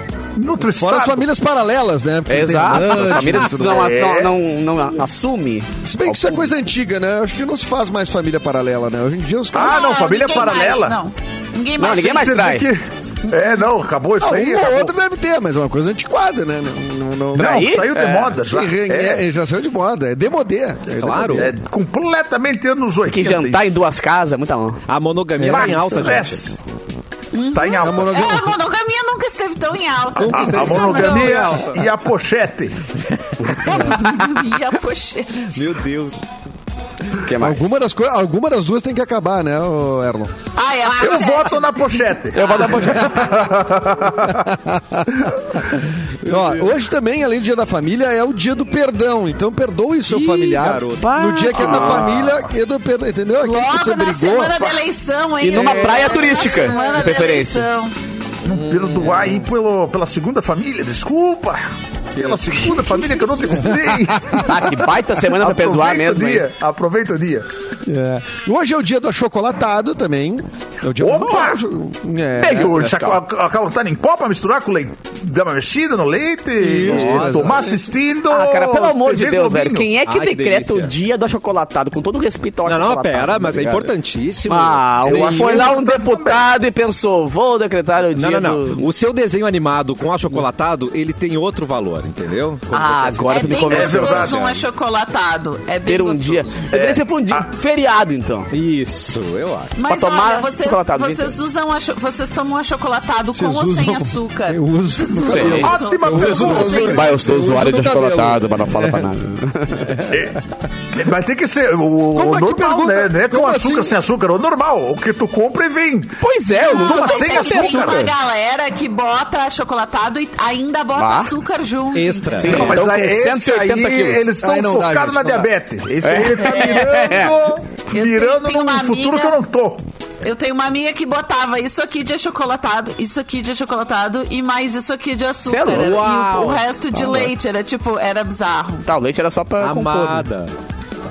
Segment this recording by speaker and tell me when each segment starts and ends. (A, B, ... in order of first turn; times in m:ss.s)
0:00.4-0:01.2 A
0:00.8-0:03.9 B
0:02.3-0:06.5 C
0:03.6-0:04.3 A
0:05.8-0:09.8 B
0:09.5-0:11.0 A
0:09.5-0:12.2 D
0:11.8-0:12.7 C
0:11.9-0:14.9 A
0:14.2-0:17.6 B
0:17.4-0:18.4 C
0:17.4-0:19.2 A
0:18.4-0:21.5 B
0:21.0-0:21.5 E
0:21.3-0:23.7 A
0:23.1-0:24.8 C
0:24.9-0:26.3 E
0:25.4-0:25.7 B
0:25.5-0:26.5 A
0:25.5-0:26.4 C
0:27.3-0:31.7 D
0:27.5-0:28.3 A
0:27.8-0:28.5 B
0:30.2-0:32.8 A
0:30.2-0:31.8 E
0:33.6-0:35.6 D
0:35.5-0:36.2 E
0:37.2-0:37.8 C
0:37.4-0:40.3 B
0:40.6-0:42.6 D
0:41.0-0:44.4 A
0:42.4-0:43.4 C
0:44.2-0:54.8 B
0:46.2-0:46.7 E
0:50.1-0:52.1 E
0:51.0-0:52.3 C
0:51.6-0:52.3 A
0:53.4-0:57.9 D
0:55.4-0:57.7 C
0:55.5-0:57.3 B
0:58.4-1:01.6 A
0:58.5-0:59.3 E
1:02.2-1:07.5 A
1:02.2-1:02.4 E
1:03.0-1:03.4 D
1:04.4-1:06.5 C
1:07.8-1:12.8 B
1:11.0-1:11.6 A
1:12.4-1:13.2 C
1:12.5-1:19.9 A
1:16.6-1:17.8 B
1:16.8-1:17.6 E
1:18.3-1:23.6 C
1:20.0-1:20.9 E
1:22.7-1:25.7 E
1:23.5-1:23.9 B
1:24.5-1:28.8 C
1:25.0-1:26.5 A
1:28.1-1:33.5 E
1:32.7-1:34.4 C
1:33.3-1:36.6 D
1:33.7-1:34.6 A
1:35.9-1:38.5 C
1:36.7-1:37.5 A
1:38.5-1:39.8 E
1:39.8-1:47.2 D
1:39.9-1:41.4 C
1:43.3-1:50.4 B
1:45.2-1:49.9 C
1:45.3-1:47.2 A
1:50.1-1:50.4 A
1:50.9-1:58.1 A
1:52.1-1:54.0 B
1:56.2-1:58.1 C
1:56.6-2:02.7 D
2:01.0-2:01.3 C
2:01.9-2:02.9 E
2:02.4-2:04.3 C
2:02.5-2:09.8 A
2:04.4-2:05.5 B
2:06.0-2:07.4 C
2:07.9-2:09.4 D
2:10.2-2:18.9 D
2:15.4-2:16.2 C
2:15.7-2:16.6 E
2:16.9-2:17.3 C
2:18.9-2:20.3 C
2:19.6-2:20.5 E